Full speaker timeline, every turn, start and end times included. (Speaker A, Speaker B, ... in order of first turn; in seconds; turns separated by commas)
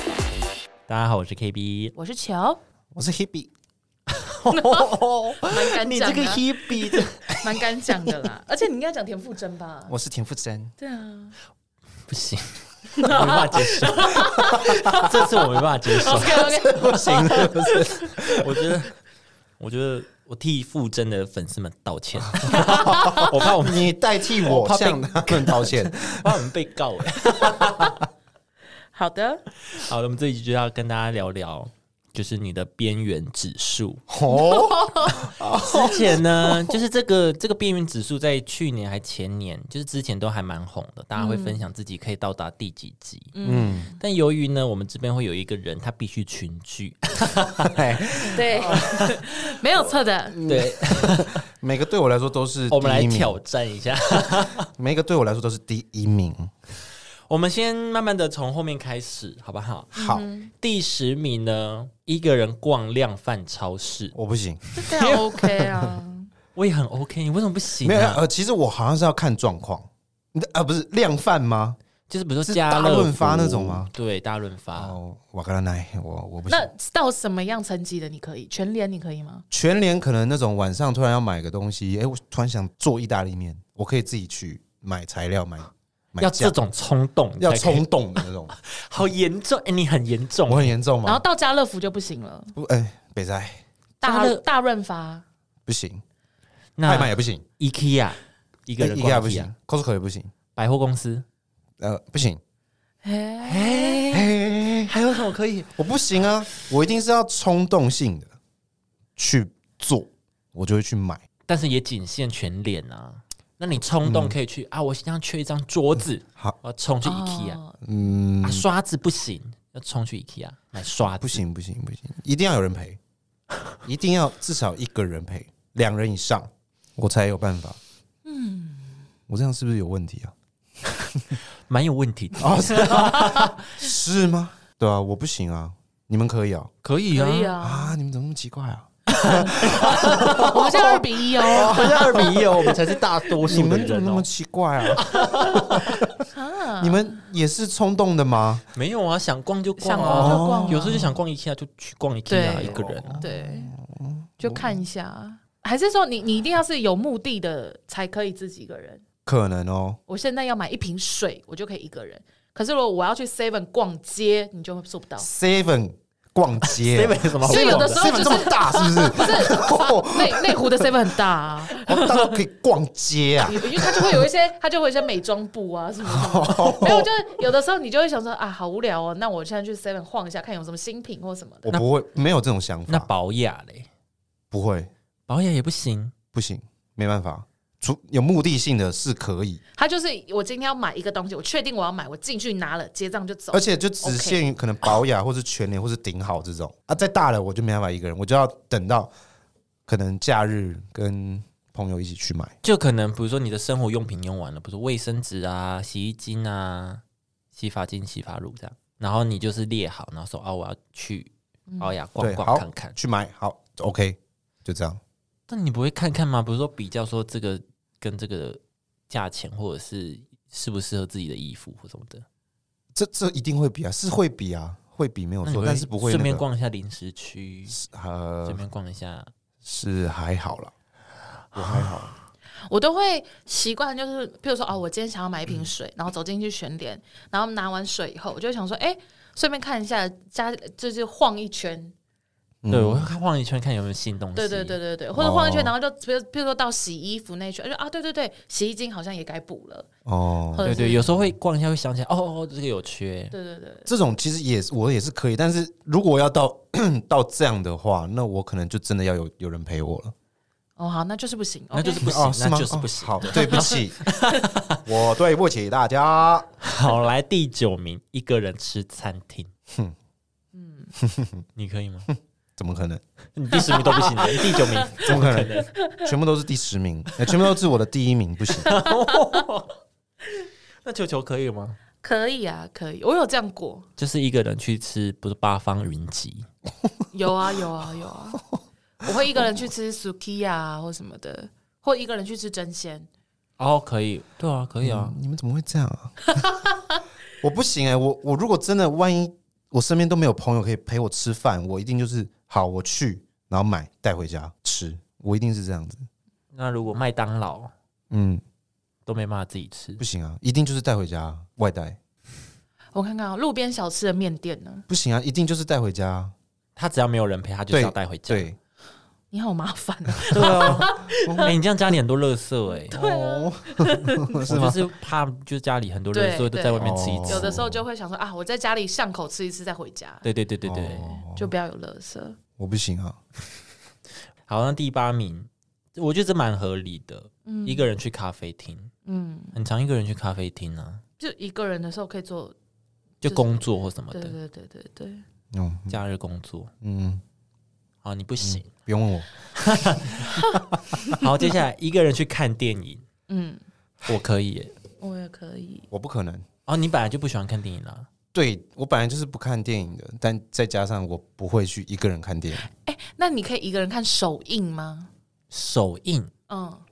Speaker A: 0.9-1.9, Speaker B: 2.0-2.6, Speaker C: 2.9-3.5, Speaker A: 4.1-7.4, Speaker B: 4.5-4.9, Speaker B: 5.4-9.9, Speaker C: 9.9-10.7, Speaker B: 10.8-11.3, Speaker A: 12.1-16.6, Speaker B: 12.9-15.4, Speaker C: 14.3-15.0, Speaker B: 16.0-18.4, Speaker C: 16.1-18.5, Speaker A: 17.1-17.4, Speaker A: 18.2-18.9, Speaker A: 19.6-28.0, Speaker C: 22.4-26.3, Speaker B: 22.5-23.2, Speaker B: 28.9-29.4, Speaker A: 29.7-34.0, Speaker C: 34.1-36.8, Speaker B: 34.3-35.2, Speaker A: 35.1-43.3, Speaker B: 41.1-41.6, Speaker B: 43.4-44.0, Speaker C: 43.4-43.9, Speaker A: 44.0-49.3, Speaker C: 47.6-48.8, Speaker B: 48.3-50.4, Speaker C: 50.3-53.4, Speaker A: 50.5-51.4, Speaker A: 52.7-54.7, Speaker C: 54.7-56.5, Speaker A: 57.3-59.9, Speaker C: 59.9-60.2, Speaker B: 60.0-60.5, Speaker A: 60.6-64.1, Speaker C: 64.1-64.8, Speaker A: 64.7-65.6, Speaker B: 64.8-66.3, Speaker A: 66.5-68.2, Speaker C: 67.8-71.8, Speaker A: 72.1-75.0, Speaker C: 72.5-73.9, Speaker C: 74.8-76.7, Speaker B: 76.5-79.5, Speaker C: 79.5-86.5, Speaker A: 86.2-90.7, Speaker C: 87.4-88.5, Speaker C: 90.5-91.2, Speaker B: 91.0-92.5, Speaker C: 92.6-93.6, Speaker B: 94.0-95.2, Speaker A: 94.0-94.4, Speaker C: 95.7-96.0, Speaker A: 96.8-99.5, Speaker C: 96.8-97.4, Speaker C: 98.8-100.3, Speaker A: 100.6-101.2, Speaker C: 101.8-102.4, Speaker B: 103.0-104.2, Speaker A: 103.4-104.3, Speaker C: 104.1-104.9, Speaker A: 104.9-105.7, Speaker C: 105.8-108.3, Speaker C: 109.2-111.2, Speaker A: 111.5-117.6, Speaker C: 114.0-114.4, Speaker B: 117.0-117.8, Speaker C: 117.8-118.7, Speaker A: 118.4-121.4, Speaker C: 121.0-123.0, Speaker C: 123.8-127.8, Speaker B: 128.3-129.0, Speaker C: 129.3-130.3, Speaker A: 131.7-133.7, Speaker C: 132.4-136.7, Speaker B: 133.1-133.5, Speaker A: 136.8-137.6, Speaker B: 137.1-138.0, Speaker C: 137.6-142.8, Speaker A: 139.2-144.3, Speaker B: 139.2-142.7, Speaker C: 143.4-146.2, Speaker A: 144.9-146.0, Speaker B: 146.3-147.2, Speaker C: 146.8-148.6, Speaker A: 148.8-153.2, Speaker B: 149.8-151.2, Speaker C: 150.0-151.1, Speaker B: 152.3-153.7, Speaker C: 152.7-154.8, Speaker B: 154.4-159.0, Speaker C: 159.2-160.0, Speaker B: 160.1-165.3, Speaker C: 165.2-170.9, Speaker A: 166.7-168.3, Speaker B: 167.4-172.4, Speaker C: 171.8-174.2, Speaker B: 173.4-181.8, Speaker C: 176.1-177.1, Speaker C: 181.7-183.1, Speaker A: 182.9-183.9, Speaker C: 184.5-184.9, Speaker A: 185.3-186.1, Speaker C: 186.3-189.6, Speaker B: 189.8-194.5, Speaker C: 193.5-199.1, Speaker C: 199.9-202.6, Speaker A: 202.6-207.0, Speaker A: 207.6-212.9, Speaker C: 212.2-215.0, Speaker A: 215.5-222.2, Speaker C: 222.9-226.4, Speaker A: 225.4-227.8, Speaker C: 227.7-228.6, Speaker A: 228.4-229.3, Speaker C: 229.6-230.7, Speaker C: 231.5-232.1, Speaker A: 231.6-232.1, Speaker B: 232.7-241.9, Speaker C: 242.6-243.1, Speaker A: 242.7-244.8, Speaker B: 244.4-249.9, Speaker C: 245.2-245.7, Speaker C: 250.1-251.3, Speaker B: 250.5-251.1, Speaker A: 250.6-253.3, Speaker B: 253.3-253.9, Speaker C: 253.9-260.1, Speaker B: 260.8-262.1, Speaker A: 261.7-264.8, Speaker C: 262.0-264.1, Speaker B: 263.3-263.6, Speaker C: 264.9-266.5, Speaker A: 266.6-269.5, Speaker B: 270.6-270.9, Speaker C: 271.0-271.4, Speaker A: 271.6-272.1, Speaker C: 272.6-273.0, Speaker A: 273.4-275.7, Speaker B: 273.7-275.1, Speaker C: 274.0-274.5, Speaker C: 275.0-278.8, Speaker B: 275.6-276.1, Speaker A: 278.6-279.8, Speaker B: 278.6-279.4, Speaker A: 280.8-281.8, Speaker B: 282.0-283.9, Speaker A: 284.0-286.5, Speaker B: 287.1-288.4, Speaker B: 289.0-293.1, Speaker A: 293.6-295.1, Speaker C: 294.8-296.4, Speaker C: 297.4-306.1, Speaker A: 306.5-307.7, Speaker C: 308.1-308.4, Speaker A: 309.1-310.0, Speaker C: 310.0-312.0, Speaker B: 312.9-314.9, Speaker C: 314.9-316.3, Speaker A: 316.8-318.5, Speaker C: 317.7-318.6, Speaker B: 319.3-321.6, Speaker C: 320.2-321.6, Speaker A: 320.3-322.9, Speaker B: 322.8-324.5, Speaker C: 322.9-324.8, Speaker A: 324.4-327.6, Speaker B: 326.1-330.2, Speaker C: 326.8-327.8, Speaker A: 330.2-331.2, Speaker C: 330.6-331.5, Speaker B: 331.2-332.4, Speaker C: 332.6-333.2, Speaker A: 334.5-338.9, Speaker B: 337.5-337.9, Speaker B: 339.1-339.5, Speaker A: 339.5-341.0, Speaker B: 341.2-342.6, Speaker A: 343.2-344.4, Speaker B: 343.3-343.6, Speaker B: 344.1-345.2, Speaker C: 345.5-346.0, Speaker A: 345.9-346.7, Speaker C: 346.8-347.2, Speaker A: 348.0-348.7, Speaker C: 348.4-349.3, Speaker A: 349.6-350.4, Speaker C: 350.4-351.0, Speaker A: 351.1-353.0, Speaker B: 353.3-353.6, Speaker A: 354.1-354.7, Speaker B: 355.0-355.9, Speaker C: 355.9-356.4, Speaker A: 356.7-358.1, Speaker C: 358.3-362.7, Speaker B: 362.7-365.1, Speaker A: 365.5-366.3, Speaker B: 366.5-366.8